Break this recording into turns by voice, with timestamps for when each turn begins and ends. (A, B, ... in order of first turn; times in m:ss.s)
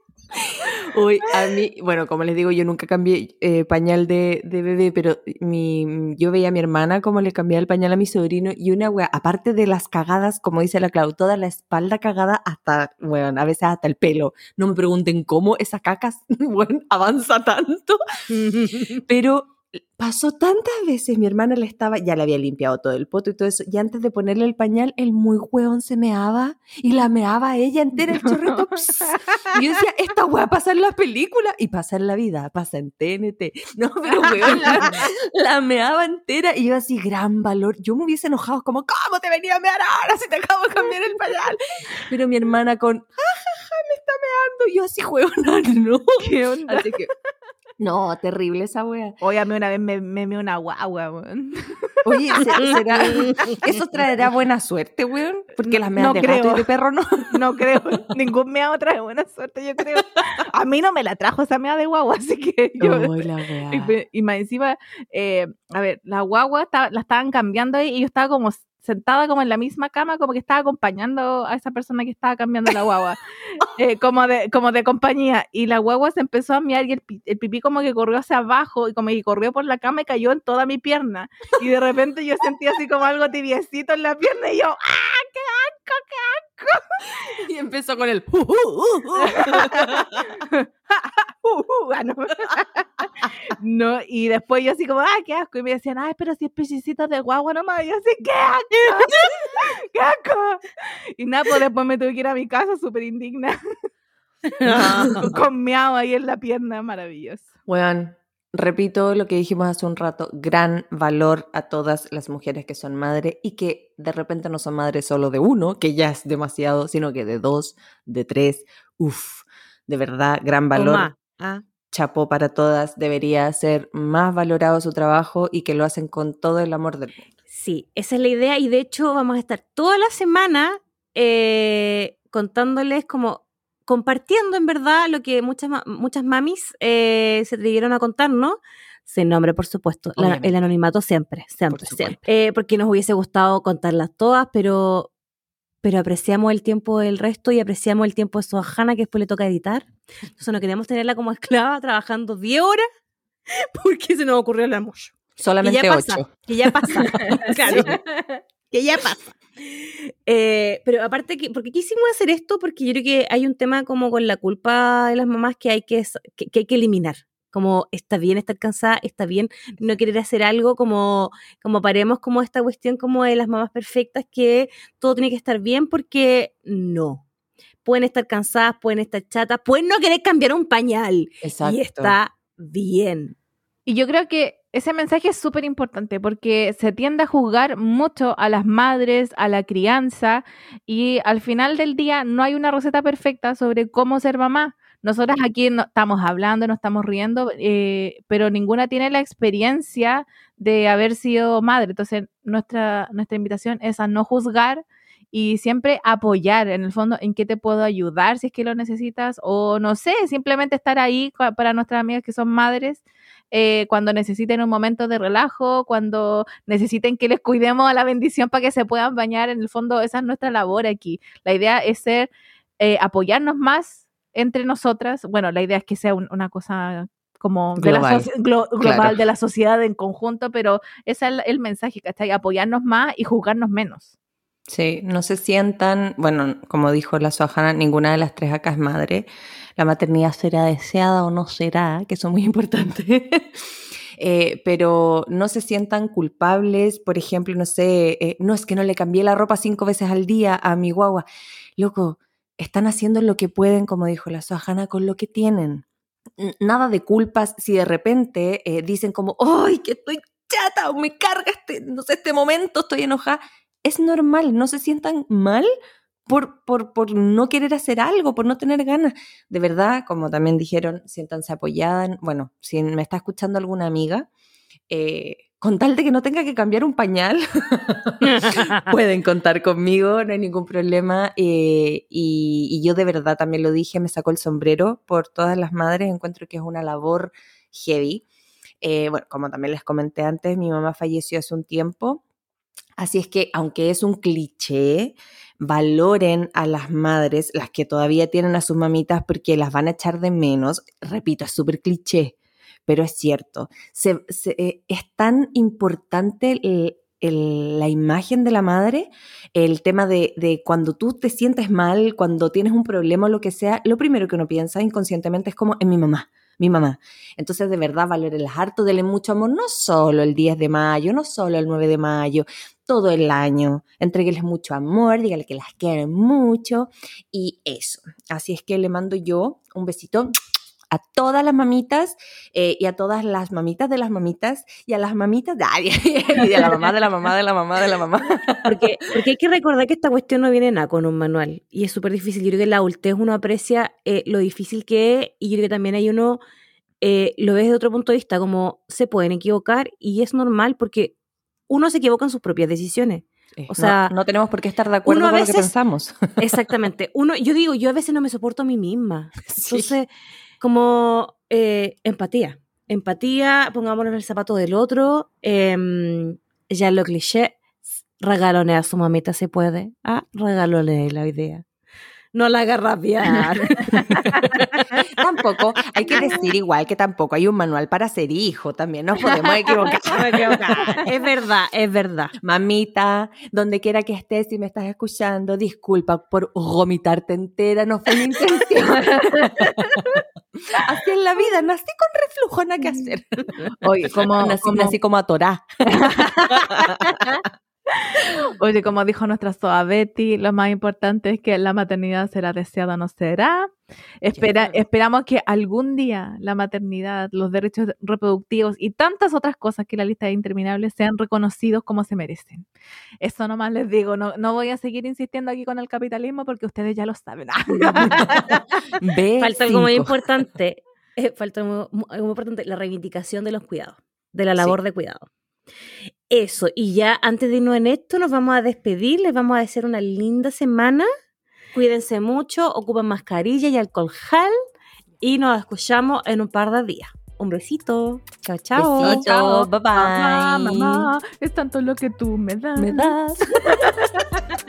0:00.4-0:18.0 A
0:18.5-0:19.0 B
0:19.0-0:47.1 A
0:28.0-0:29.6 C
0:34.2-0:34.9 C
0:46.2-0:47.0 C
0:47.8-0:49.2 A
0:49.2-0:53.2 C
0:52.0-0:57.4 A
0:52.6-0:53.6 B
0:55.7-0:56.7 C
0:57.3-1:27.3 C
1:02.8-1:03.9 A
1:27.2-1:30.5 A
1:29.2-1:32.9 C
1:33.5-1:43.6 C
1:44.6-1:47.5 C
1:44.6-1:45.4 B
1:44.7-1:45.1 A
1:47.7-2:01.1 A
2:00.8-2:01.6 B
2:01.9-2:07.2 A
2:07.5-2:25.1 B
2:20.2-2:20.6 A
2:21.7-2:22.2 A
2:25.8-2:32.8 B
2:33.5-2:38.0 B
2:35.4-2:38.0 A
2:37.6-2:38.4 C
2:38.7-2:57.2 B
2:57.8-3:03.4 B
3:01.4-3:02.2 A
3:03.9-3:42.3 C
3:42.8-3:54.1 C
3:47.8-3:48.3 A
3:48.8-3:49.2 A
3:54.7-4:11.2 A
4:11.8-4:15.8 A
4:16.4-4:25.7 A
4:26.3-4:34.3 A
4:34.9-4:48.2 A
4:38.3-4:38.8 B
4:48.8-4:52.2 A
4:53.0-5:02.4 A
5:02.9-5:30.3 A
5:30.9-5:38.9 A
5:38.7-5:46.4 B
5:47.0-5:51.2 B
5:51.7-5:54.1 B
5:53.6-5:56.2 A
5:55.1-5:55.7 B
5:56.4-6:00.1 B
5:59.5-5:59.9 A
6:00.6-6:07.6 B
6:08.2-6:11.6 B
6:12.3-6:14.8 B
6:14.0-6:14.5 A
6:14.2-6:14.6 C
6:15.0-6:21.0 A
6:16.1-6:16.5 B
6:20.0-6:22.3 B
6:22.4-6:30.2 A
6:29.0-6:30.2 C
6:30.7-6:37.4 A
6:33.7-6:35.0 C
6:35.9-6:37.4 C
6:38.0-6:52.7 C
6:44.4-6:44.8 A
6:53.2-6:58.6 C
6:58.1-6:58.4 A
6:59.0-7:00.3 A
6:59.4-7:05.3 B
7:06.3-7:11.1 B
7:11.7-7:14.5 B
7:15.2-7:19.3 B
7:18.8-7:21.1 A
7:19.0-7:23.2 C
7:22.8-7:24.0 A
7:23.7-7:24.3 C